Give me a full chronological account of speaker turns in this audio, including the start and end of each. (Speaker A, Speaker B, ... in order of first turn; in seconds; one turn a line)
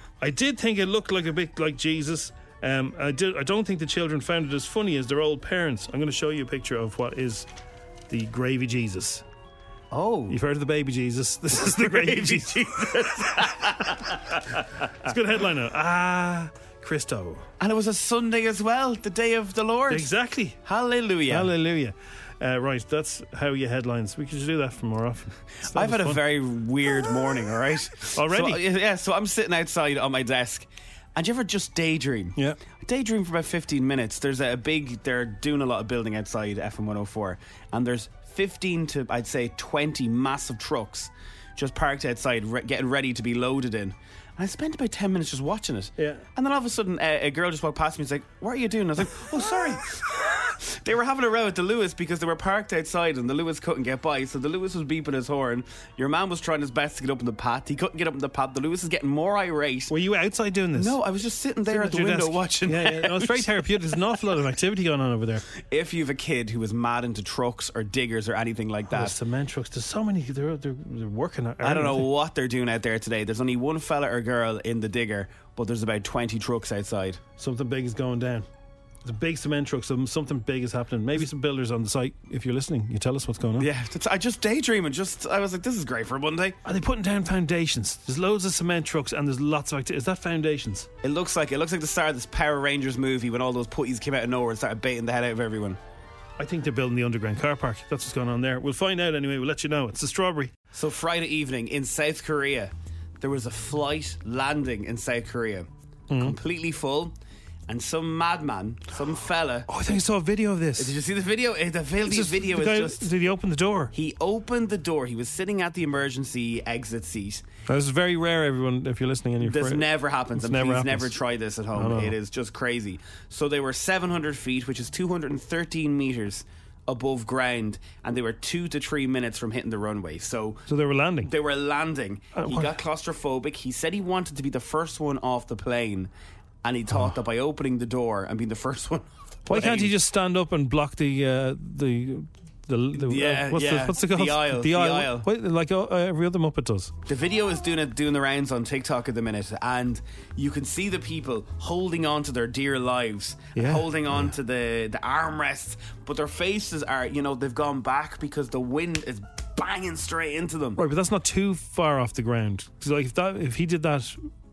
Speaker A: 0.2-7.5
Speaker A: 8.1-9.2
Speaker B: 9.9-10.4
Speaker A: 10.3-14.0
Speaker B: 11.6-14.4
Speaker A: 15.0-17.4
Speaker B: 17.6-20.1
Speaker A: 19.9-20.6
Speaker B: 20.6-21.5
Speaker A: 21.3-26.2
Speaker B: 25.7-59.9
Speaker A: 28.1-28.6
Speaker A: 46.0-46.2
Speaker A: 59.9-61.0
Speaker B: 60.7-63.7
Speaker A: 61.7-65.5
Speaker B: 65.7-69.2
Speaker A: 68.9-72.1
Speaker B: 71.6-77.2
Speaker A: 77.4-78.5
Speaker A: 79.0-83.7
Speaker B: 83.6-86.6
Speaker A: 86.6-90.9
Speaker B: 91.0-95.8
Speaker A: 96.4-100.5
Speaker B: 100.7-107.2
Speaker A: 106.1-106.4
Speaker B: 107.7-109.7
Speaker A: 109.7-110.9
Speaker B: 110.8-113.1
Speaker A: 112.0-113.9
Speaker B: 113.9-117.4
Speaker A: 117.7-121.2
Speaker B: 119.4-130.6
Speaker A: 121.7-122.2
Speaker A: 130.7-131.3
Speaker B: 131.2-136.1
Speaker A: 132.4-132.7
Speaker B: 136.6-139.9
Speaker A: 139.5-146.9
Speaker B: 143.0-145.3
Speaker B: 147.1-160.8
Speaker A: 153.6-154.3
Speaker A: 160.8-164.2